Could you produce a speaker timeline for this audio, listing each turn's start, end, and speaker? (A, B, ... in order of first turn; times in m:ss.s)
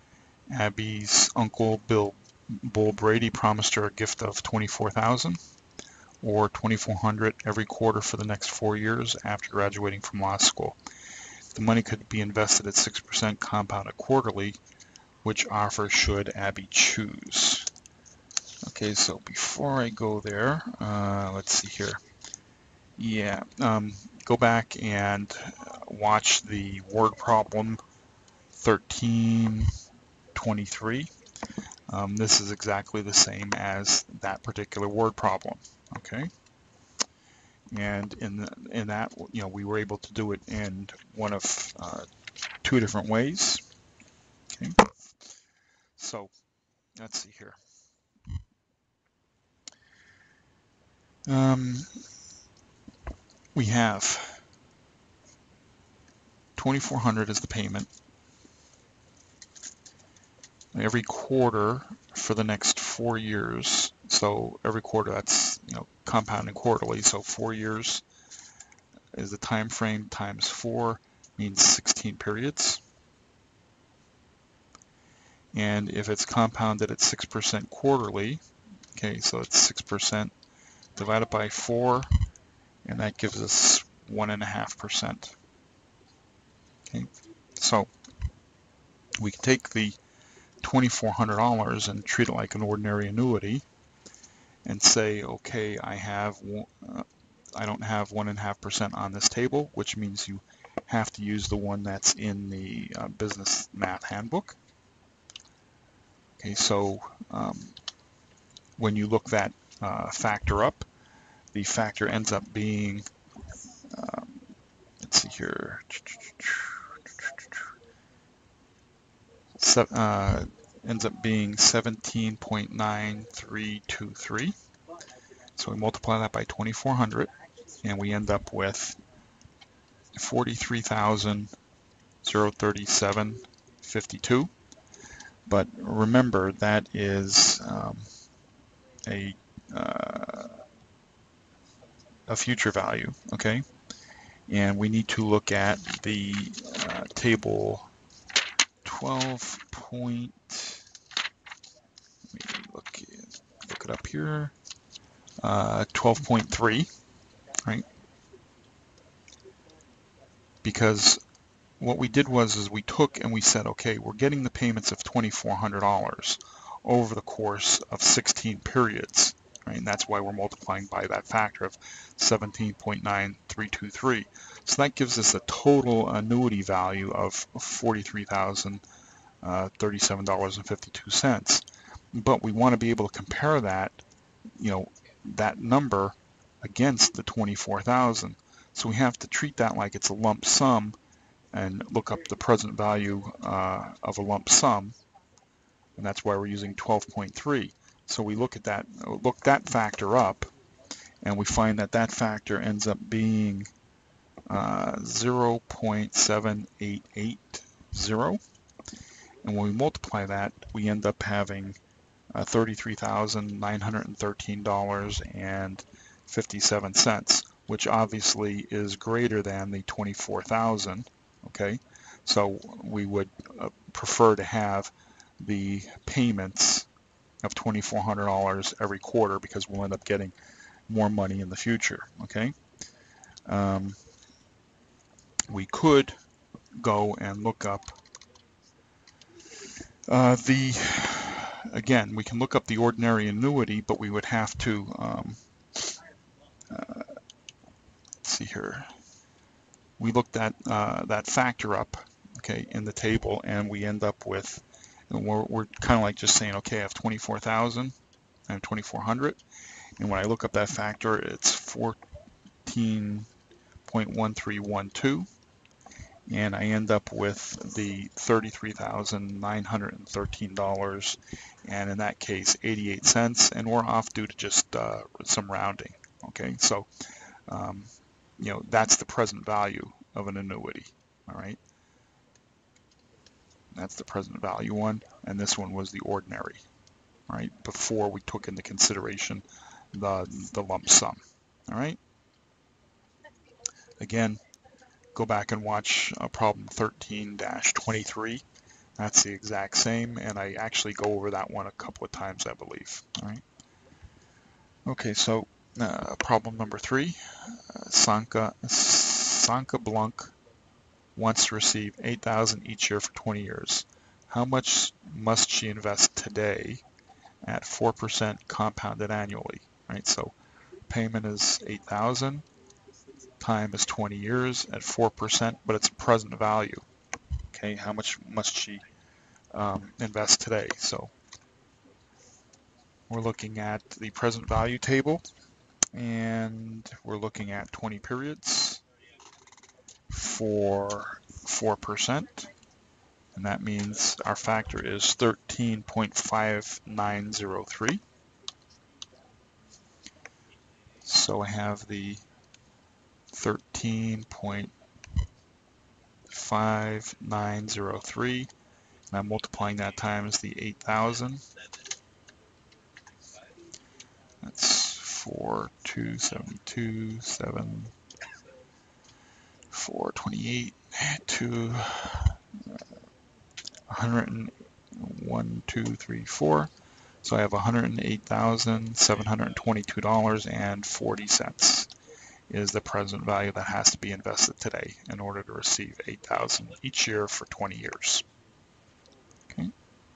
0:00.5-0:05.4 A
0:06.2-0:10.8 A
0:11.5-0:14.6 A
0:15.2-0:17.7 A
0:18.7-0:22.0 A
0:23.0-0:27.8 A
0:28.5-0:29.8 A
0:30.3-0:31.1 A
0:31.9-0:36.3 A
0:37.7-0:42.1 A
0:42.6-0:43.7 A
0:44.5-0:44.8 A
0:46.0-0:46.3 A
0:47.0-0:47.6 A
0:51.3-0:52.0 A
0:53.6-0:54.4 A
0:56.6-0:57.9 A
1:00.7-1:08.0 A
1:09.1-1:12.8 A
1:15.5-1:18.4 A
1:19.0-1:20.3 A
1:21.0-1:22.1 A
1:22.8-1:25.4 A
1:26.9-1:27.9 A
1:29.2-1:30.0 A
1:30.6-1:33.7 A
1:34.7-1:44.6 A
1:46.4-1:47.8 A
1:48.8-1:50.9 A
1:51.5-1:53.1 A
1:53.8-1:54.5 A
1:55.0-1:57.7 A
1:59.6-2:04.6 A
2:05.6-2:09.0 A
2:10.1-2:11.5 A
2:12.2-2:14.5 A
2:15.5-2:18.1 A
2:19.0-2:20.6 A
2:22.3-2:23.6 A
2:24.5-2:27.9 A
2:28.8-2:30.9 A
2:32.3-2:34.5 A
2:35.4-2:36.9 A
2:40.6-2:41.2 A
2:41.8-2:58.8 A
2:59.4-3:04.0 A
3:04.6-3:11.0 A
3:11.5-3:15.0 A
3:16.0-3:20.5 A
3:21.2-3:23.7 A
3:24.5-3:28.4 A
3:29.4-3:31.8 A
3:32.3-3:46.9 A
3:47.4-3:50.3 A
3:50.9-3:52.5 A
3:53.5-3:54.0 A
3:55.5-3:56.2 A
3:56.8-3:58.0 A
4:00.1-4:06.0 A
4:06.7-4:07.2 A
4:08.2-4:09.0 A
4:10.0-4:18.0 A
4:18.5-4:19.4 A
4:20.0-4:22.0 A
4:22.6-4:23.3 A
4:23.9-4:25.3 A
4:26.3-4:41.6 A
4:43.7-4:46.6 A
4:47.3-4:52.0 A
4:54.0-4:54.4 A
4:55.2-4:58.4 A
4:59.0-5:03.4 A
5:04.9-5:10.3 A
5:11.2-5:16.8 A
5:17.4-5:20.4 A
5:20.9-5:22.4 A
5:23.4-5:26.8 A
5:27.5-5:28.8 A
5:29.5-5:31.1 A
5:33.1-5:35.2 A
5:35.9-5:38.8 A
5:40.1-5:42.5 A
5:43.4-5:48.0 A
5:51.0-5:52.2 A
5:53.3-5:54.7 A
5:56.3-5:58.5 A
5:59.1-6:01.5 A
6:04.4-6:07.9 A
6:09.7-6:12.9 A
6:13.9-6:16.7 A
6:17.2-6:21.9 A
6:22.5-6:28.2 A